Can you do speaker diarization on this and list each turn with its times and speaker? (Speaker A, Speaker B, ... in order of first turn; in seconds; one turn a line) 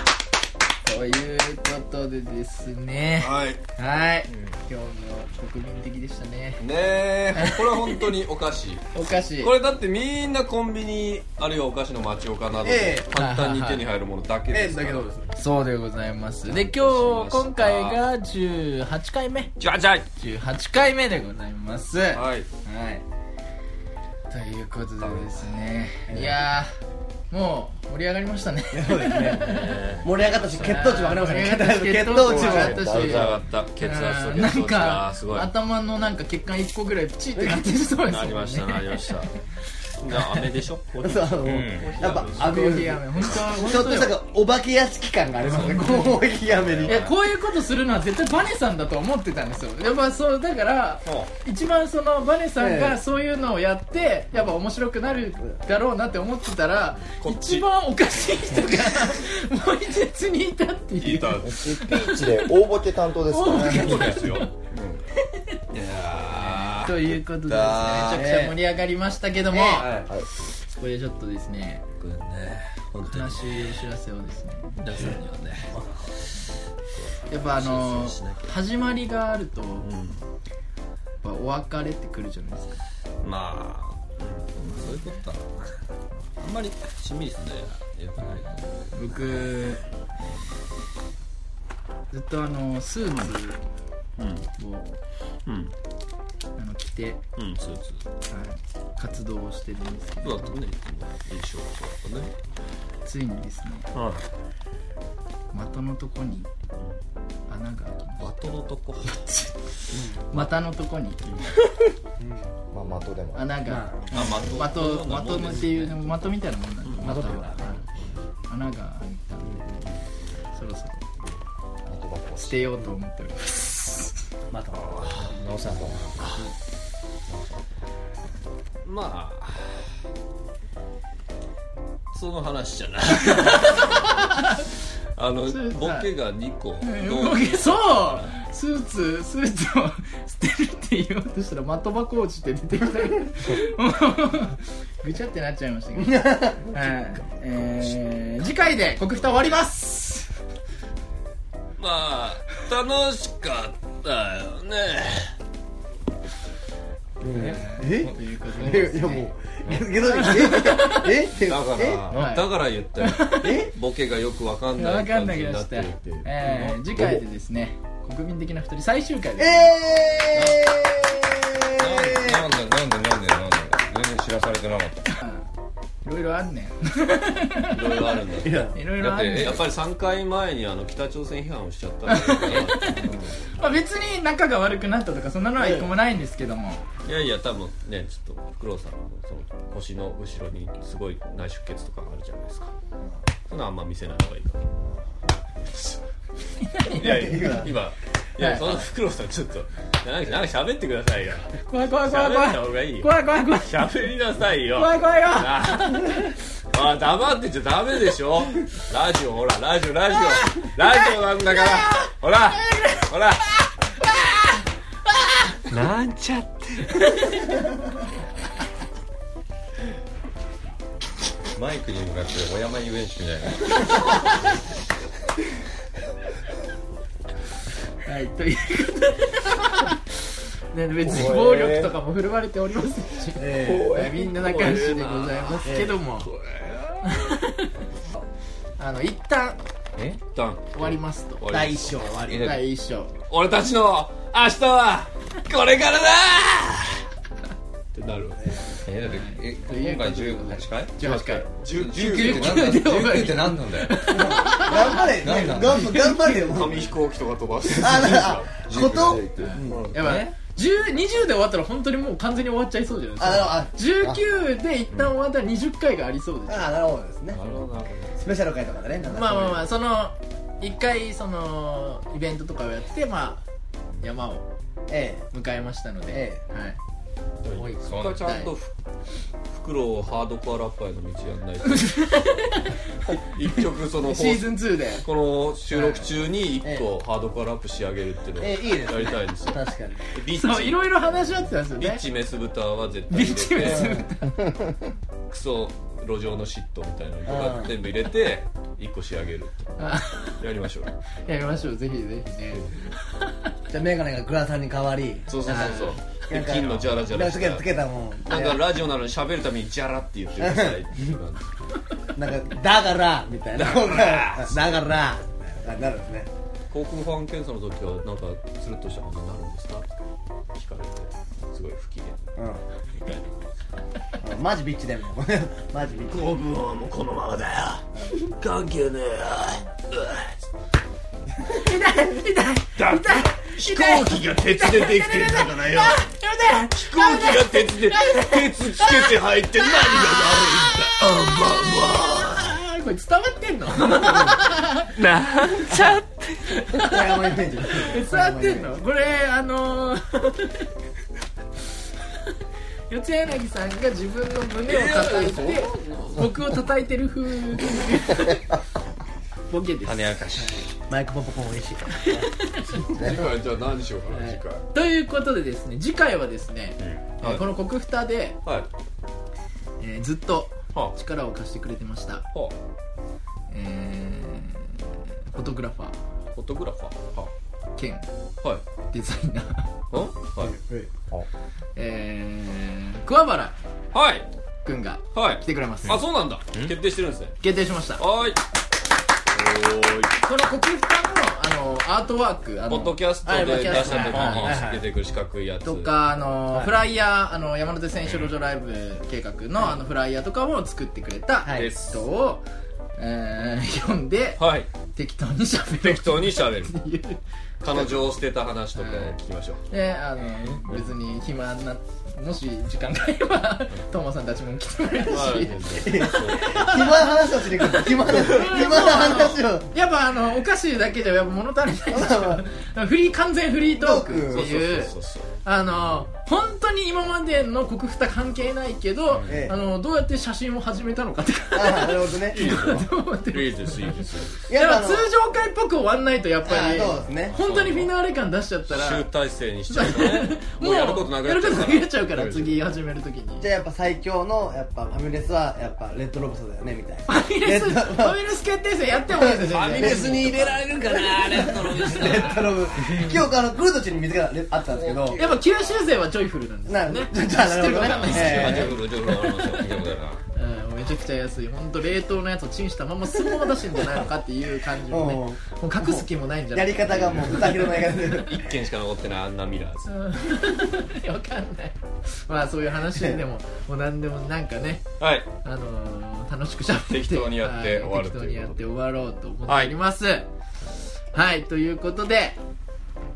Speaker A: 0.8-6.6
Speaker B: 3.2-3.6
Speaker B: 6.6-15.1
Speaker A: 7.3-8.1
Speaker A: 8.9-9.5
Speaker C: 12.6-13.1
Speaker A: 13.1-13.9
Speaker C: 14.5-15.3
Speaker A: 15.4-19.5
Speaker B: 16.4-18.0
Speaker B: 19.6-20.1
Speaker A: 20.2-23.0
Speaker B: 22.1-22.5
Speaker A: 24.3-26.7
Speaker B: 25.0-25.5
Speaker C: 26.1-26.3
Speaker A: 27.3-29.8
Speaker C: 28.7-29.5
Speaker B: 29.4-31.1
Speaker C: 30.0-33.1
Speaker A: 30.6-39.3
Speaker B: 32.3-35.5
Speaker D: 32.7-33.4
Speaker C: 37.4-37.6
Speaker B: 38.0-39.3
Speaker B: 40.0-43.6
Speaker A: 40.1-40.5
Speaker C: 41.0-47.1
Speaker E: 41.5-42.0
Speaker A: 42.1-44.2
Speaker B: 45.4-46.0
Speaker A: 45.5-46.2
Speaker E: 46.5-47.1
Speaker A: 46.8-62.5
Speaker C: 52.6-53.0
Speaker B: 57.1-57.7
Speaker B: 61.0-61.5
Speaker D: 61.4-64.1
Speaker A: 63.3-64.5
Speaker C: 63.5-63.9
Speaker B: 63.7-65.1
Speaker A: 65.3-65.6
Speaker B: 65.7-68.3
Speaker A: 66.4-70.0
Speaker C: 68.1-68.5
Speaker C: 69.5-69.9
Speaker B: 69.5-70.1
Speaker A: 70.6-71.8
Speaker B: 72.0-73.7
Speaker A: 73.0-75.2
Speaker B: 74.8-75.8
Speaker C: 75.7-76.0
Speaker B: 77.0-78.5
Speaker A: 77.3-79.9
Speaker B: 79.8-80.2
Speaker A: 81.2-82.8
Speaker B: 83.2-85.8
Speaker A: 84.6-85.0
Speaker B: 86.4-89.4
Speaker A: 88.9-89.8
Speaker A: 92.1-93.6
Speaker B: 94.2-94.5
Speaker A: 94.6-94.9
Speaker B: 95.5-95.7
Speaker A: 96.5-97.2
Speaker B: 97.4-98.0
Speaker A: 98.3-100.5
Speaker B: 100.2-102.3
Speaker A: 103.0-103.9
Speaker B: 103.9-104.2
Speaker A: 105.5-106.5
Speaker A: 107.5-108.5
Speaker B: 108.2-109.2
Speaker A: 109.0-111.8
Speaker C: 109.9-110.4
Speaker C: 112.2-112.5
Speaker D: 112.7-113.5
Speaker A: 113.3-117.8
Speaker C: 113.7-114.3
Speaker B: 114.1-116.1
Speaker B: 116.8-118.2
Speaker C: 117.0-117.6
Speaker A: 118.5-119.7
Speaker B: 119.4-120.0
Speaker A: 120.5-121.0
Speaker D: 121.9-122.6
Speaker A: 122.4-124.2
Speaker C: 124.5-125.3
Speaker B: 124.7-125.3
Speaker E: 125.3-126.2
Speaker D: 125.7-126.1
Speaker B: 126.2-126.5
Speaker B: 128.8-130.0
Speaker B: 132.1-134.1
Speaker A: 133.2-134.7
Speaker B: 135.2-138.3
Speaker A: 135.5-136.1
Speaker A: 136.8-150.3
Speaker C: 146.0-146.7
Speaker B: 147.6-147.9
Speaker B: 151.8-155.3
Speaker C: 157.2-162.1
Speaker A: 157.3-159.3
Speaker E: 157.4-158.8
Speaker A: 159.9-161.2
Speaker B: 161.3-166.3
Speaker E: 162.1-162.4
Speaker A: 162.1-163.7
Speaker C: 163.4-163.7
Speaker A: 164.8-169.7
Speaker E: 166.5-167.1
Speaker C: 169.4-172.5
Speaker E: 171.8-175.0
Speaker A: 175.2-175.5
Speaker A: 176.0-178.1
Speaker B: 177.7-183.3
Speaker C: 178.4-178.8
Speaker A: 178.7-179.6
Speaker E: 179.0-179.5
Speaker A: 182.1-186.8
Speaker C: 185.6-185.9
Speaker B: 187.0-192.7
Speaker B: 193.5-194.6
Speaker B: 195.7-196.0
Speaker A: 196.6-197.6
Speaker B: 196.9-213.6
Speaker C: 197.1-197.7
Speaker A: 198.4-198.8
Speaker A: 201.6-204.1
Speaker A: 204.7-206.3
Speaker A: 211.5-212.1
Speaker A: 212.6-213.1
Speaker B: 215.7-217.1
Speaker A: 217.1-217.6
Speaker E: 221.5-223.7
Speaker A: 228.0-236.3
Speaker D: 231.1-231.9
Speaker E: 231.2-231.7
Speaker C: 233.4-234.0
Speaker E: 233.7-234.2
Speaker B: 234.2-235.7
Speaker C: 235.6-236.0
Speaker B: 236.2-237.0
Speaker A: 237.0-237.8
Speaker A: 238.8-239.6
Speaker B: 240.3-242.2
Speaker A: 240.7-241.4
Speaker C: 241.5-242.6
Speaker A: 242.3-243.1
Speaker B: 243.3-247.1
Speaker B: 247.9-248.6
Speaker E: 248.8-250.9
Speaker A: 249.0-256.2
Speaker B: 251.0-252.8
Speaker E: 251.7-254.0
Speaker C: 254.1-256.9
Speaker E: 255.2-255.8
Speaker D: 255.2-255.6
Speaker B: 256.3-260.0
Speaker C: 257.7-259.9
Speaker E: 258.7-260.3
Speaker A: 259.2-266.7
Speaker C: 263.2-264.2
Speaker C: 266.5-267.4
Speaker B: 267.3-268.2
Speaker C: 268.2-269.7
Speaker A: 269.1-273.4
Speaker A: 274.0-274.5
Speaker C: 274.9-275.3
Speaker A: 275.3-276.8
Speaker C: 276.1-276.4
Speaker B: 277.4-278.7
Speaker E: 277.8-278.3
Speaker A: 278.2-278.5
Speaker B: 279.5-282.3
Speaker A: 281.7-282.9
Speaker B: 283.1-290.9
Speaker A: 284.0-285.1
Speaker A: 285.7-286.1
Speaker C: 288.4-290.0
Speaker A: 290.3-292.0
Speaker B: 291.8-294.0
Speaker A: 293.1-294.4
Speaker C: 293.6-294.1
Speaker B: 295.3-299.6
Speaker C: 297.3-297.7
Speaker A: 299.8-300.4
Speaker B: 300.4-301.3
Speaker A: 301.2-303.3
Speaker C: 303.7-308.6
Speaker B: 305.3-307.7
Speaker A: 305.4-306.0
Speaker B: 308.2-311.5
Speaker C: 310.4-311.1
Speaker C: 312.1-316.3
Speaker B: 313.6-314.9
Speaker B: 316.7-319.9
Speaker B: 320.5-322.2
Speaker C: 322.4-322.6
Speaker B: 323.0-323.3
Speaker C: 324.2-326.5
Speaker B: 326.1-330.3
Speaker A: 331.4-345.0
Speaker B: 332.8-336.1
Speaker B: 336.8-342.5
Speaker B: 345.0-346.6
Speaker C: 345.7-346.0
Speaker A: 346.5-347.3
Speaker C: 346.8-348.7
Speaker A: 347.8-350.7
Speaker A: 352.9-358.5
Speaker B: 354.6-356.3
Speaker A: 359.5-360.7
Speaker E: 359.9-360.5
Speaker C: 360.9-362.3
Speaker A: 362.0-362.9
Speaker B: 362.8-364.6
Speaker A: 364.1-368.4
Speaker B: 366.8-367.4
Speaker A: 369.8-372.3
Speaker A: 373.5-376.0
Speaker B: 376.3-377.3
Speaker A: 377.8-378.1
Speaker A: 378.9-379.7
Speaker B: 379.9-380.5
Speaker C: 380.4-380.9
Speaker A: 381.8-383.6
Speaker B: 383.9-384.3
Speaker A: 384.6-386.0
Speaker B: 385.1-387.4
Speaker A: 387.4-388.0
Speaker B: 388.0-388.4
Speaker B: 389.3-390.1
Speaker A: 390.2-394.6
Speaker B: 392.7-395.9
Speaker C: 393.3-394.9
Speaker E: 394.1-394.6
Speaker A: 395.6-402.4
Speaker C: 396.5-396.8
Speaker B: 398.1-398.3
Speaker C: 401.4-401.7
Speaker B: 401.5-402.0
Speaker A: 403.0-407.2
Speaker B: 404.4-404.7
Speaker B: 405.7-406.8
Speaker B: 407.6-409.6
Speaker A: 407.7-408.0
Speaker A: 408.8-409.2
Speaker A: 409.7-417.1
Speaker B: 415.0-416.5
Speaker C: 415.8-419.7
Speaker A: 417.6-434.0
Speaker C: 421.9-422.4
Speaker C: 423.8-424.5
Speaker B: 424.3-425.3
Speaker C: 429.3-429.6
Speaker C: 431.5-432.5
Speaker B: 432.3-434.5
Speaker C: 434.5-435.1
Speaker A: 434.5-439.1
Speaker C: 436.4-437.4
Speaker E: 437.3-437.9
Speaker B: 438.7-442.6
Speaker A: 439.7-443.5
Speaker C: 443.4-448.2
Speaker A: 447.1-450.6
Speaker C: 449.1-455.2
Speaker B: 449.5-453.1
Speaker A: 451.2-452.3
Speaker B: 454.7-455.4
Speaker A: 455.1-458.8
Speaker C: 456.7-458.9
Speaker B: 458.1-459.8
Speaker E: 459.5-460.2
Speaker A: 460.3-468.0
Speaker C: 464.9-468.4
Speaker B: 467.0-467.3
Speaker B: 468.1-469.9
Speaker A: 469.9-474.9
Speaker C: 472.9-473.2
Speaker B: 475.0-475.3
Speaker A: 475.4-480.3
Speaker B: 476.7-478.7
Speaker B: 479.5-479.7
Speaker A: 481.1-482.4